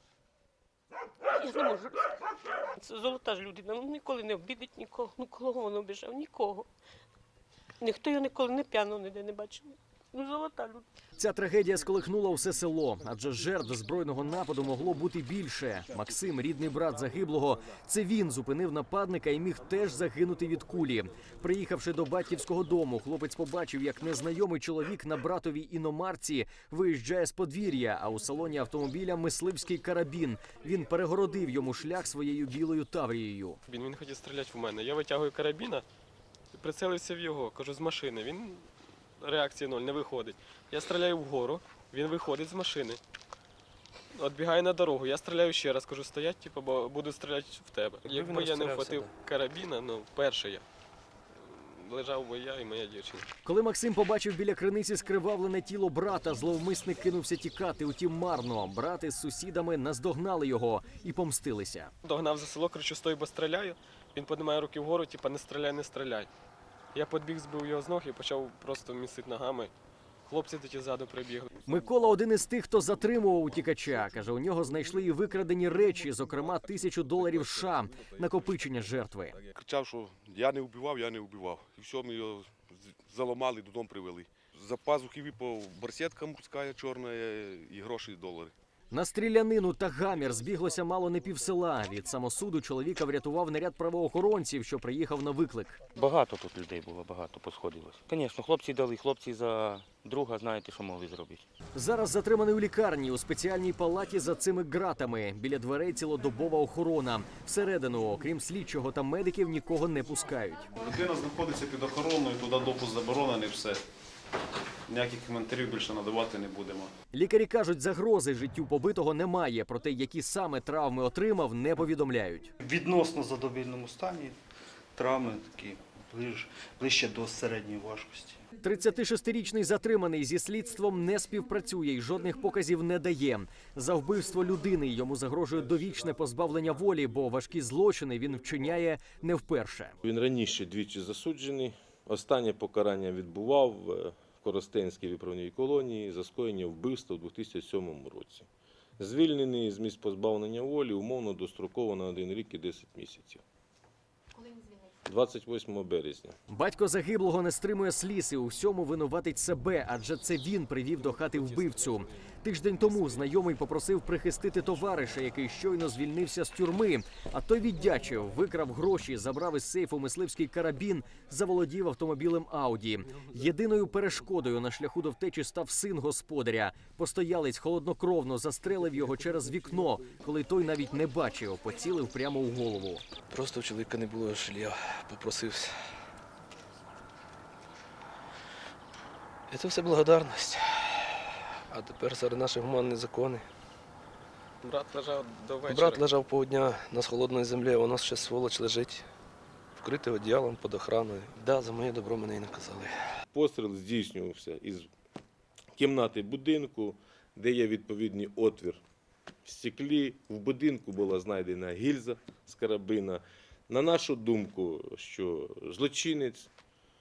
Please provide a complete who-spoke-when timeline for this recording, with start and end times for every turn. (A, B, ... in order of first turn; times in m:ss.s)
0:01.3-0:02.2 A
0:02.8-0:06.7 A
0:07.8-0:10.8 A
0:11.2-0:33.6 B
0:33.7-0:35.8 C
0:36.5-0:38.7 C
0:39.2-0:43.0 C
0:44.1-0:50.6 C
0:48.1-0:49.1 D
0:51.5-0:53.3 C
0:53.4-1:01.9 B
1:02.0-1:06.3 C
1:06.9-1:09.7 C
1:10.3-1:11.5 C
1:11.7-1:19.4 B
1:19.4-1:28.5 E
1:28.9-1:35.8 B
1:36.0-1:41.4 F
1:41.8-1:50.7 B
1:50.8-1:53.5 E
1:50.9-1:53.8 G
1:54.9-1:56.9 G
1:55.1-1:56.9 E
1:57.1-2:02.5 B
2:02.6-2:04.4 H
2:05.0-2:08.4 H
2:08.6-2:20.0 B
2:20.0-2:28.5 I
2:29.0-2:33.4 I
2:35.0-2:36.3 I
2:36.5-3:03.0 B
3:03.3-3:05.7 D
3:09.5-3:13.5 D
3:14.6-3:16.1 C
3:15.7-3:19.0 D
3:19.8-3:23.0 D
3:23.3-3:24.9 I
3:25.8-3:28.8 I
3:29.4-3:36.5 I